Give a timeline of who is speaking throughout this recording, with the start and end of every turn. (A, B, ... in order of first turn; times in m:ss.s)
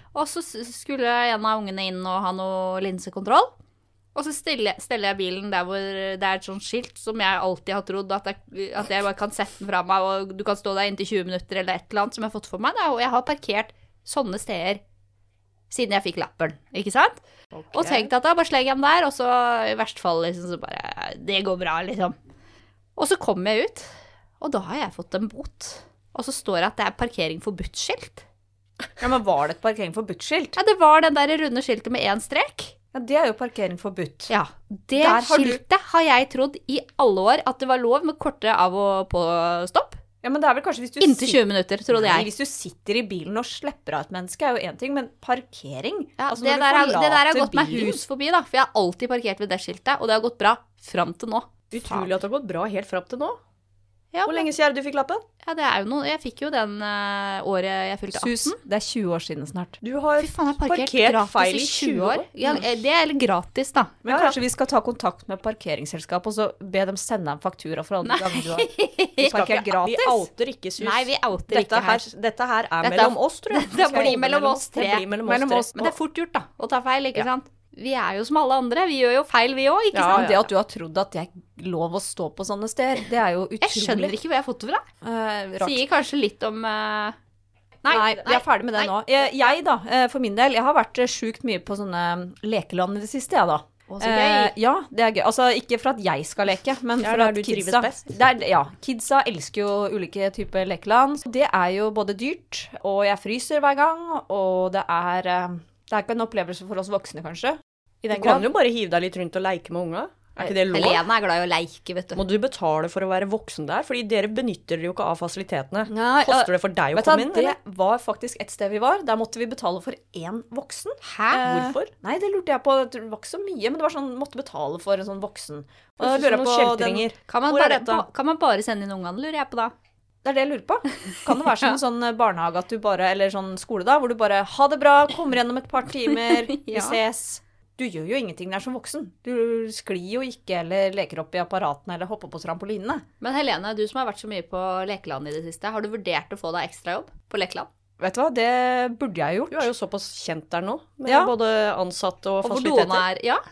0:00.1-0:03.5 A
0:04.1-0:14.8 A
0:15.7-0:17.2 A
0:17.5-0:18.1 B
0:17.7-0:22.2 A
0:23.0-0:28.2 A
0:29.0-0:30.6 B
0:30.6-0:32.7 A
0:32.9-0:34.3 B
0:34.3-0:40.0 A
0:35.0-0:35.6 B
0:40.2-0:48.0 B
0:41.0-0:42.3 A
0:46.2-0:52.1 A
0:51.7-0:53.4 C
0:54.1-0:54.5 A
0:54.2-0:55.2 C
0:55.4-0:58.6 A
0:58.1-0:59.8 B
0:59.8-1:02.6 C
1:00.2-1:04.0 A
1:04.0-1:08.7 B
1:04.1-1:04.4 C
1:08.0-1:09.5 A
1:09.2-1:10.3 B
1:09.2-1:15.9 C
1:10.8-1:12.0 A
1:12.8-1:20.5 A
1:19.9-1:20.4 C
1:20.1-1:24.1 B
1:23.6-1:24.9 A
1:25.0-1:25.8 B
1:25.6-1:27.2 A
1:27.8-1:28.9 A
1:27.9-1:48.5 B
1:33.9-1:34.5 A
1:37.0-1:38.1 C
1:48.1-1:51.0 C
1:50.7-1:52.2 A
1:52.2-1:57.6 C
1:55.9-2:07.1 B
2:01.0-2:01.4 A
2:01.3-2:01.9 C
2:06.0-2:08.1 C
2:07.3-2:09.7 A
2:10.2-2:23.0 B
2:16.3-2:17.0 A
2:23.2-2:27.7 A
2:28.0-2:29.7 B
2:29.5-2:33.0 C
2:31.1-2:31.3 B
2:32.4-2:33.4 A